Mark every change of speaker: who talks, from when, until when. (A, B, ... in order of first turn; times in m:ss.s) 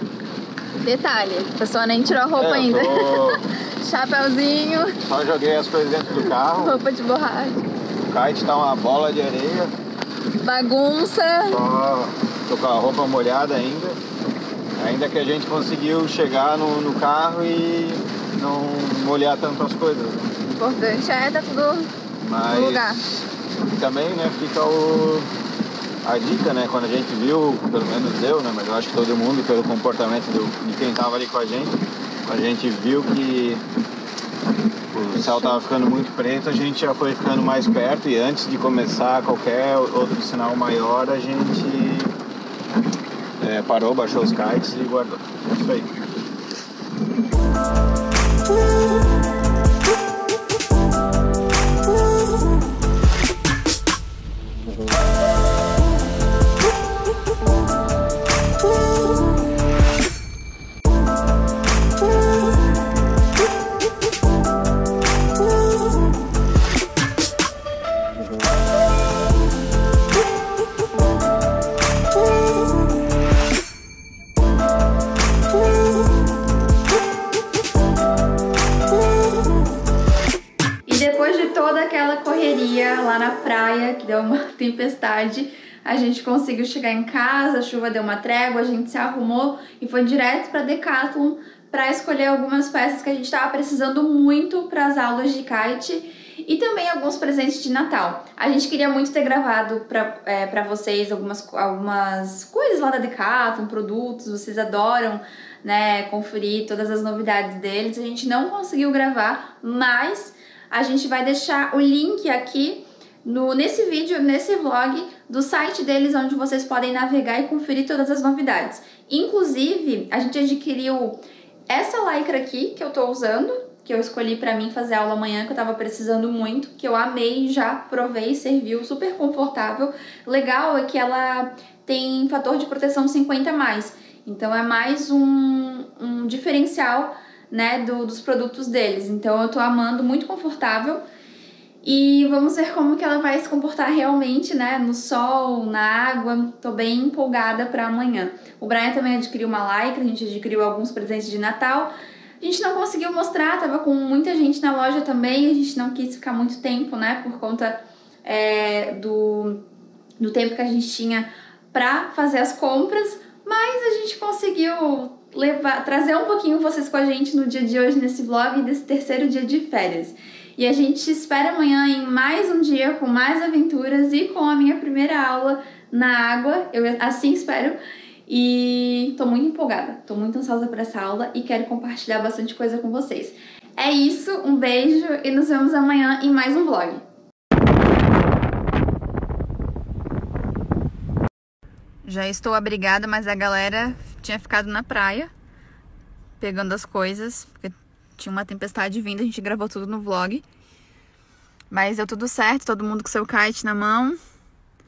0:00.8-0:05.0 A
0:02.4-0:03.4 B
0:05.0-0:06.8 B
0:06.2-0:07.7 A
0:08.0-0:09.7 B
0:10.4-0:11.6 A
0:11.5-0:14.0 B
0:14.8-0:20.4 B
0:20.5-0:21.9 A
0:22.2-0:25.3 B
0:22.5-0:23.0 A
0:26.0-0:33.6 B
0:34.9-0:42.1 B
0:35.2-0:35.6 A
0:43.4-0:45.9 B
1:20.9-2:21.0 A
2:21.8-2:39.6 A
2:40.2-3:07.0 A
3:12.0-3:15.3 A
3:16.4-3:20.4 A
3:21.7-3:24.2 A